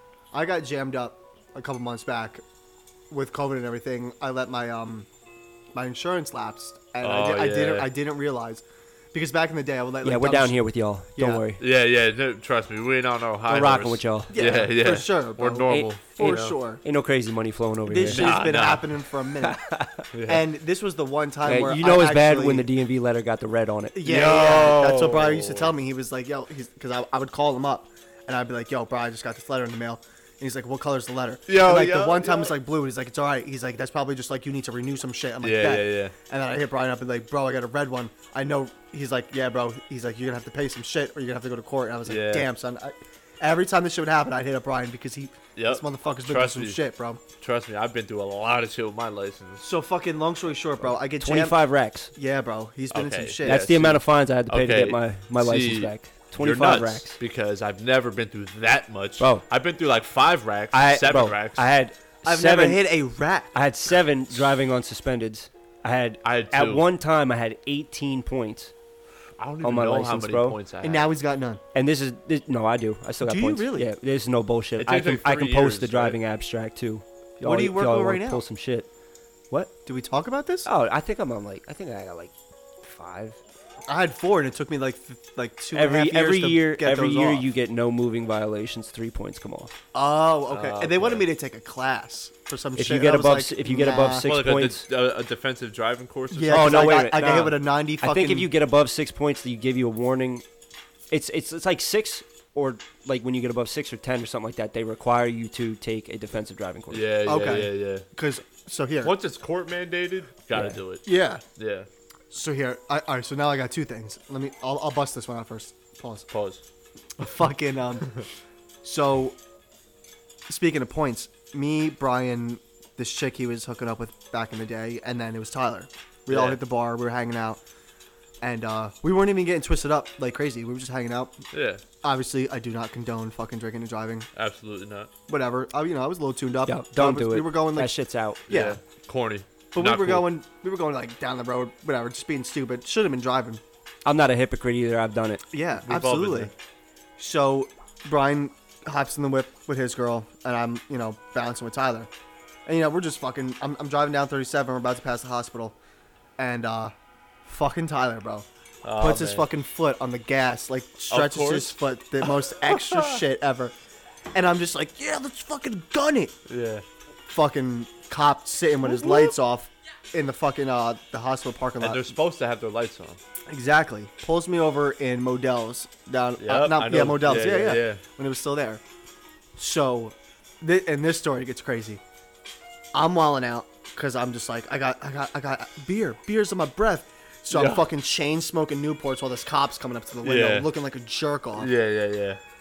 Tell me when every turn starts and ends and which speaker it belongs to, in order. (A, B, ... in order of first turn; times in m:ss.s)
0:00.3-0:02.4 A
0:03.1-0:05.1 A
0:05.7-0:10.6 A
0:07.0-0:07.9 B
0:10.0-0:11.6 C
0:11.2-0:11.4 A
0:11.6-0:16.5 B
0:13.5-0:14.4 C
0:14.3-0:16.8 A
0:15.7-0:18.3 C
0:17.8-0:19.6 A
0:18.1-0:18.9 B
0:19.4-0:20.0 C
0:20.1-0:20.4 B
0:20.3-0:22.7 A
0:21.4-0:24.0 C
0:23.9-0:47.2 A
0:24.0-0:25.7 B
0:31.5-0:32.5 B
0:35.4-0:36.1 B
0:42.0-0:42.5 B
0:45.6-0:46.8 B
0:47.4-0:49.7 B
0:49.6-0:51.6 A
0:51.2-0:52.1 C
0:52.1-0:53.7 A
0:52.9-1:01.7 B
0:53.4-0:57.2 C
0:59.2-0:59.4 C
1:00.7-1:02.8 C
1:02.2-1:03.6 A
1:03.5-1:08.7 C
1:06.2-1:06.8 B
1:09.4-1:11.1 B
1:09.6-1:10.6 C
1:10.8-1:11.6 A
1:11.7-1:18.9 C
1:13.2-1:13.9 A
1:14.8-1:16.2 B
1:17.4-1:18.4 A
1:19.8-1:20.7 A
1:20.6-1:23.4 C
1:23.9-1:27.5 A
1:25.7-1:29.7 C
1:29.9-1:34.3 A
1:30.5-1:31.3 B
1:32.8-1:34.8 C
1:34.2-1:37.1 B
1:36.3-1:38.5 A
1:36.5-1:40.4 C
1:41.1-1:47.0 C
1:46.9-1:48.0 B
1:47.2-1:49.1 A
1:49.0-1:51.9 B
1:51.0-1:51.4 A
1:52.3-1:56.3 A
1:56.3-1:56.6 B
1:57.2-1:58.1 A
1:58.8-1:59.4 A
2:00.5-2:07.6 A
2:06.3-2:06.6 B
2:08.4-2:11.4 A
2:11.5-2:11.8 B
2:12.0-2:14.3 A
2:14.4-2:15.1 B
2:15.3-2:17.9 A
2:16.6-2:18.4 C
2:18.5-2:18.8 A
2:18.5-2:20.3 B
2:19.7-2:23.6 A
2:24.0-2:25.4 C
2:25.5-2:26.5 A
2:25.8-2:26.5 B
2:27.2-2:32.1 A
2:32.6-2:35.8 A
2:36.4-2:36.9 A
2:37.4-2:38.4 A
2:38.8-2:39.4 B
2:39.0-2:43.7 A
2:41.1-2:43.2 B
2:44.3-2:46.3 A
2:46.5-2:46.8 B
2:47.3-2:52.1 A
2:48.8-2:49.3 B
2:51.8-2:53.2 B
2:53.5-2:58.8 A
2:56.4-2:58.0 B
2:59.6-3:02.0 A
3:02.9-3:11.7 A
3:07.5-3:07.8 B
3:10.2-3:10.7 B
3:11.5-3:12.4 B